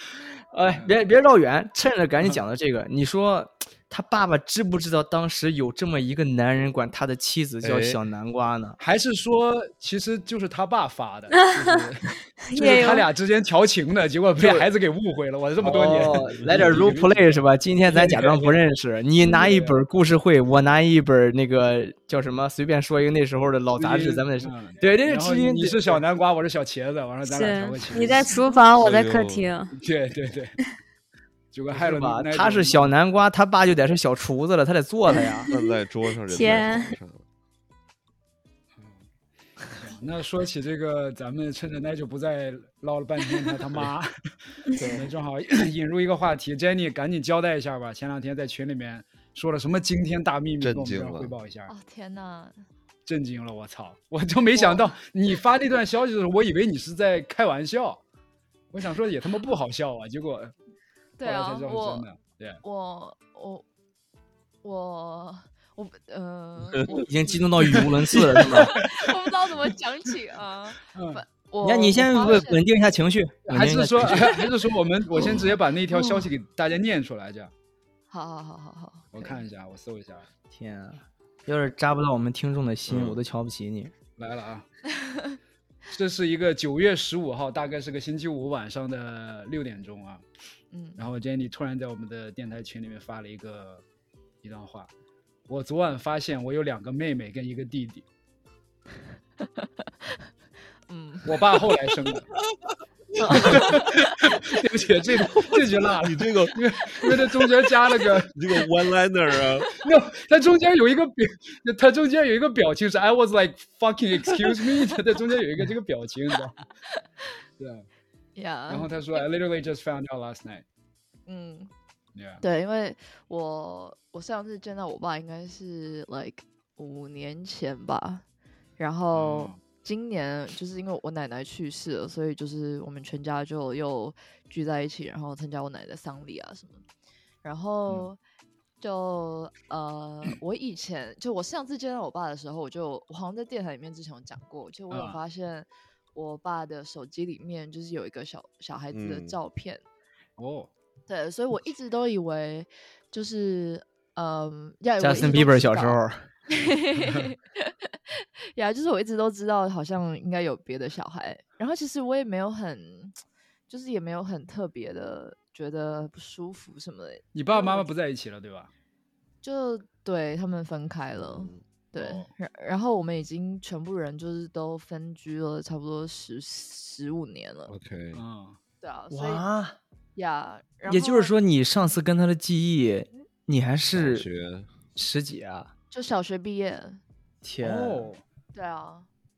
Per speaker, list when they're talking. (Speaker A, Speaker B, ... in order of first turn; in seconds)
Speaker A: 0.5-8.8, 14.4-14.7, 15.6-26.0, 31.7-35.5, 44.8-45.1, 66.9-68.8, 71.6-74.3, 80.5-83.9, 155.0-156.2, 179.1-179.8, 180.8-184.3, 184.9-185.7, 187.4-188.1
Speaker B: 7.6-8.0, 15.6-16.9, 28.8-29.5, 35.5-37.2, 50.6-51.4, 82.9-83.2, 105.9-106.5, 108.3-109.8, 148.9-149.4, 171.2-171.6, 177.7-178.2, 183.9-184.7
Speaker C: 8.8-18.6, 19.4-19.8, 23.8-28.3, 29.8-30.5, 31.5-32.9, 39.7-44.1, 44.8-51.7, 53.1-58.0, 58.7-60.5, 61.2-62.6, 67.7-69.1, 70.9-71.2, 73.5-77.5, 79.1-80.2, 84.2-84.7, 85.9-90.2, 91.0-93.8, 94.4-94.9, 95.5-98.1, 101.2-102.3, 103.3-108.3, 109.8-116.6, 117.6-117.8, 118.7-120.7, 122.2-122.4, 129.1-129.6, 144.9-145.2, 150.4-150.7, 167.3-168.7, 172.0-172.3, 178.1-178.6, 187.6-188.2
Speaker D: 11.3-11.9, 12.5-13.1, 19.2-19.5, 27.3-29.7, 35.5-37.0
Speaker E: 51.7-52.6, 54.5-54.9, 61.2-62.1, 62.6-63.6, 64.6-72.6, 75.9-76.2, 78.1-79.4, 90.7-91.0, 99.4-100.3, 100.9-101.6, 103.2-104.4, 118.4-119.3, 121.3-121.7, 122.4-128.2, 128.8-136.8, 137.4-138.2, 138.8-149.8, 151.1-167.9, 169.4-177.7, 178.8-179.4, 180.2-181.3, 185.9-187.0, 188.5-189.1